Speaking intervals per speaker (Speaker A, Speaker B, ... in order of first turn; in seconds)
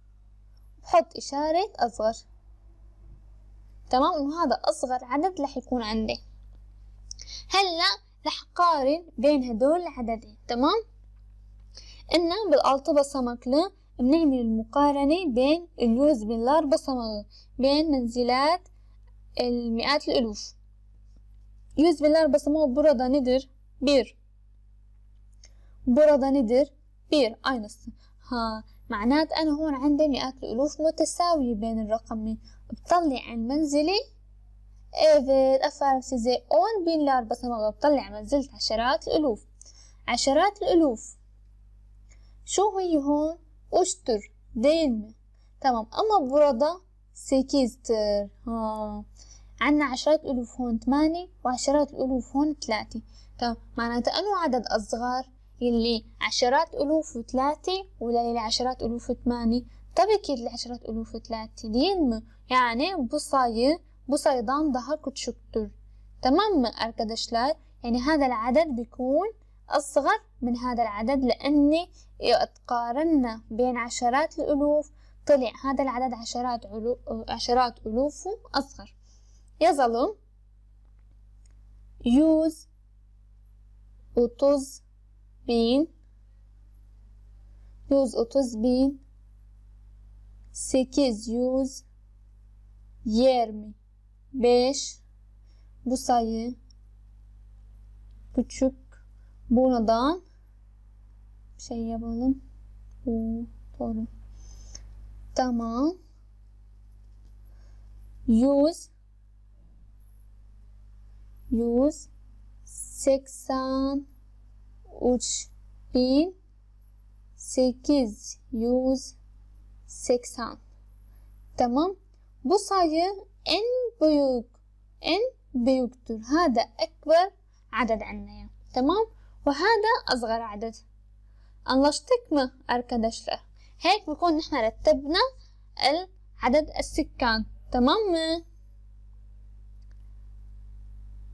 Speaker A: 0.8-2.2, 3.9-6.2, 7.5-10.8, 12.1-18.7, 19.4-20.6, 21.8-24.2, 25.9-34.0, 35.0-39.5, 40.1-41.2, 42.5-49.0, 49.6-79.0, 79.6-80.2, 82.1-82.7, 84.2-84.8, 85.5-85.9, 87.9-89.0, 90.5-91.8, 93.0-93.8, 94.3-95.0, 95.8-96.6, 98.3-98.9, 99.5-100.2, 101.6-102.4, 103.0-104.1, 105.3-106.0, 108.3-108.9, 111.5-112.1, 112.7-114.0, 115.0-116.4, 117.4-119.2, 119.9-120.6, 121.6-130.8, 131.7-135.2, 135.8-138.4